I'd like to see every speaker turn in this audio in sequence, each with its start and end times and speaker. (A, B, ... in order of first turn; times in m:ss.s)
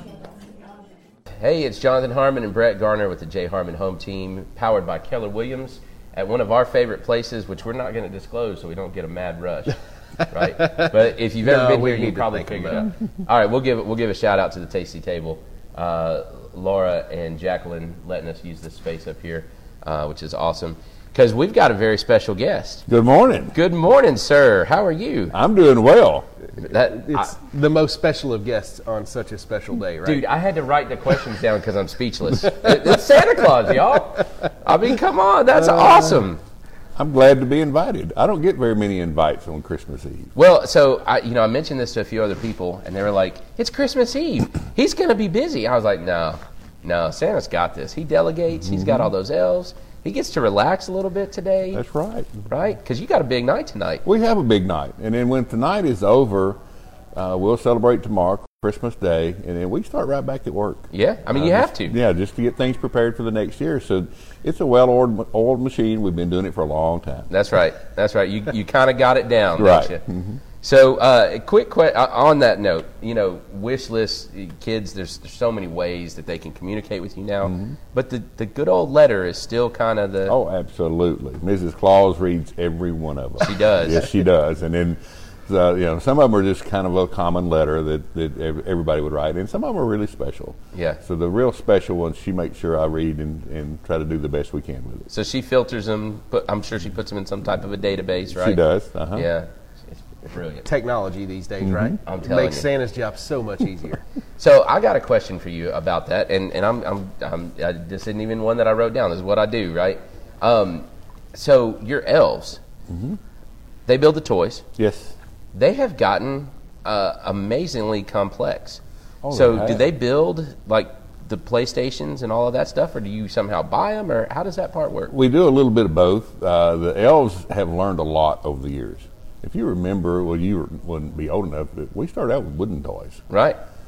0:01.4-0:09.8 A
0:10.3-0:22.8 A
0:10.4-0:12.9 B
0:22.9-0:23.6 C
0:23.5-0:25.4 A
0:25.3-0:26.3 C
0:26.6-0:27.4 A
0:27.0-0:30.2 B
0:30.0-0:36.4 A
0:35.6-0:36.2 B
0:37.0-0:40.3 C
0:40.4-0:51.8 A
0:51.7-0:52.4 C
0:52.5-0:54.0 A
0:54.0-0:56.6 C
0:57.1-1:07.3 C
1:00.9-1:02.0 A
1:07.3-1:10.0 A
1:09.6-1:10.4 C
1:10.6-1:20.4 A
1:17.4-1:17.8 C
1:20.3-1:35.1 C
1:23.4-1:24.2 A
1:30.7-1:31.0 A
1:35.1-1:38.6 A
1:38.4-1:39.3 C
1:39.1-1:40.7 A
1:40.6-1:44.0 B
1:41.6-1:42.0 C
1:42.1-1:42.7 A
1:44.4-1:52.6 A
1:52.9-1:53.2 C
1:53.9-1:54.7 A
1:54.8-1:55.1 C
1:55.5-2:05.1 A
1:59.2-1:59.9 C
2:05.1-2:13.2 C
2:13.3-2:13.6 A